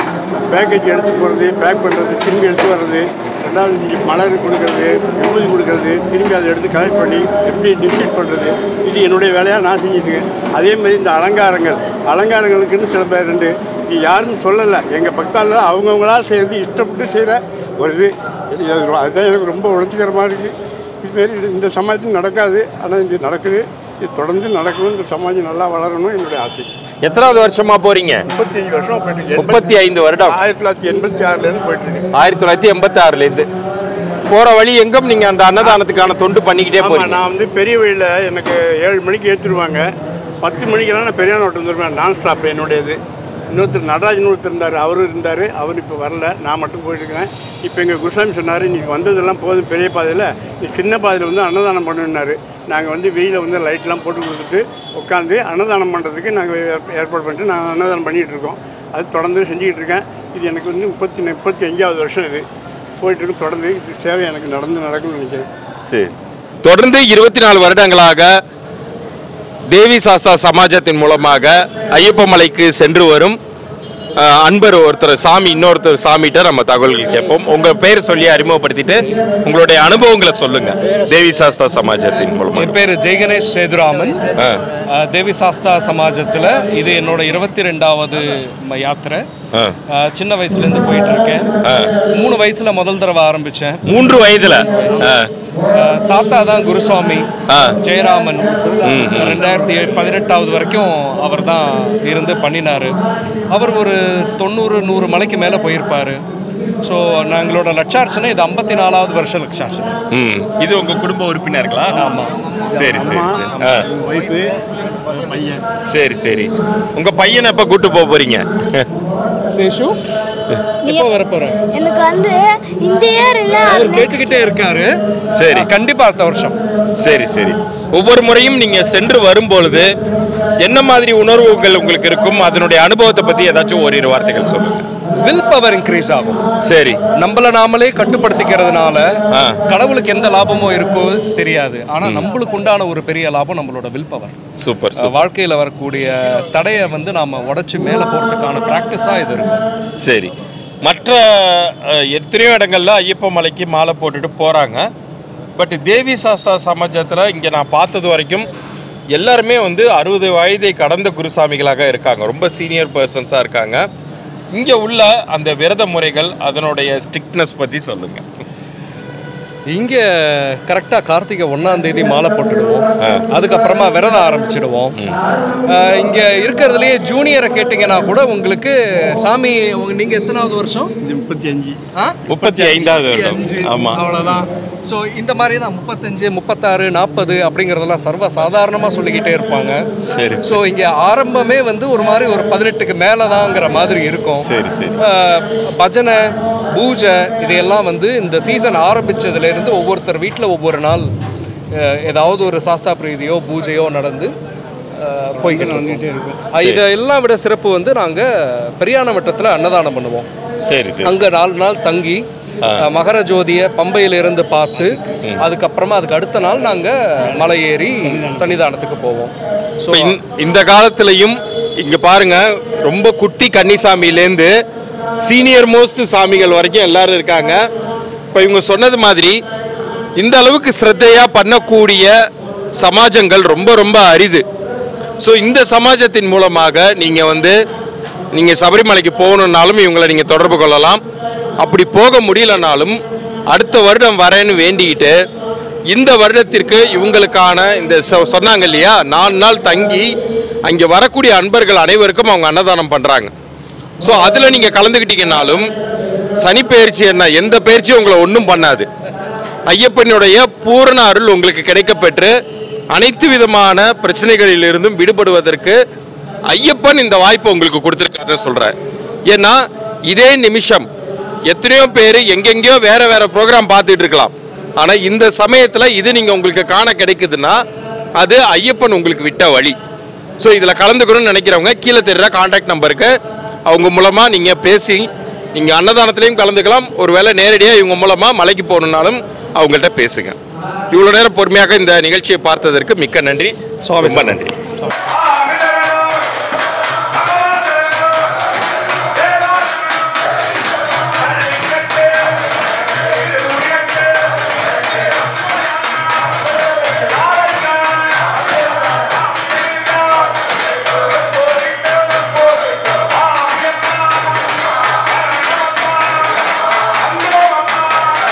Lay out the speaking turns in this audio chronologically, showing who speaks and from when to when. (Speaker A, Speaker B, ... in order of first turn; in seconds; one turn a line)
Speaker A: 0.3-26.7
Speaker B: 27.0-28.2
Speaker A: 28.3-29.7
Speaker B: 29.4-30.4
Speaker A: 30.2-32.0
Speaker B: 32.1-33.5
Speaker B: 34.3-37.1
Speaker A: 36.8-39.8
Speaker A: 40.4-43.0
Speaker A: 43.5-62.4
Speaker A: 63.0-65.5
Speaker B: 65.9-66.1
Speaker B: 66.6-68.3
Speaker B: 69.7-73.4
Speaker B: 74.2-82.7
Speaker C: 82.5-84.3
Speaker C: 84.9-89.2
Speaker C: 89.9-91.5
Speaker B: 91.6-91.9
Speaker C: 92.1-93.8
Speaker B: 93.9-95.3
Speaker C: 95.7-97.2
Speaker B: 97.5-97.8
Speaker C: 97.8-102.9
Speaker B: 98.8-99.4
Speaker C: 103.5-106.2
Speaker C: 106.8-109.9
Speaker B: 110.1-112.0
Speaker C: 111.9-112.3
Speaker B: 112.6-113.9
Speaker A: 112.8-114.5
Speaker C: 113.0-113.8
Speaker A: 115.1-115.6
Speaker B: 115.9-118.9
Speaker C: 119.5-120.0
Speaker D: 120.8-121.1
Speaker C: 120.8-121.6
Speaker D: 121.7-124.5
Speaker C: 123.5-124.9
Speaker B: 125.3-125.7
Speaker C: 125.5-126.6
Speaker B: 127.0-129.9
Speaker B: 130.6-134.8
Speaker C: 135.2-136.4
Speaker B: 136.6-137.0
Speaker C: 137.2-139.1
Speaker B: 139.3-139.6
Speaker C: 139.7-144.3
Speaker B: 144.6-145.1
Speaker C: 144.9-149.6
Speaker B: 150.0-150.3
Speaker B: 150.8-154.8
Speaker B: 155.6-158.5
Speaker B: 159.1-163.8
Speaker B: 164.5-168.2
Speaker C: 169.7-174.9
Speaker C: 175.7-180.9
Speaker A: 181.0-181.8
Speaker C: 181.9-189.8
Speaker B: 182.3-184.0
Speaker B: 190.1-190.6
Speaker C: 190.4-201.1
Speaker B: 194.4-195.0
Speaker C: 201.7-204.3
Speaker C: 204.9-210.2
Speaker B: 210.7-211.1
Speaker C: 211.0-212.2
Speaker C: 212.8-220.2
Speaker B: 219.9-224.5
Speaker B: 225.2-227.6
Speaker B: 228.3-229.4
Speaker B: 230.2-232.1
Speaker B: 232.8-234.4
Speaker B: 235.2-237.6
Speaker B: 238.3-241.0
Speaker B: 241.6-245.1
Speaker B: 245.9-250.1
Speaker B: 250.6-253.3
Speaker B: 254.0-255.7
Speaker B: 256.4-258.9
Speaker B: 259.7-262.3
Speaker B: 262.9-265.8
Speaker B: 266.5-268.7
Speaker B: 269.3-270.9
Speaker B: 271.5-277.6
Speaker B: 278.2-279.8
Speaker B: 280.4-283.1
Speaker B: 283.7-290.4
Speaker B: 290.9-294.5
Speaker C: 293.8-294.4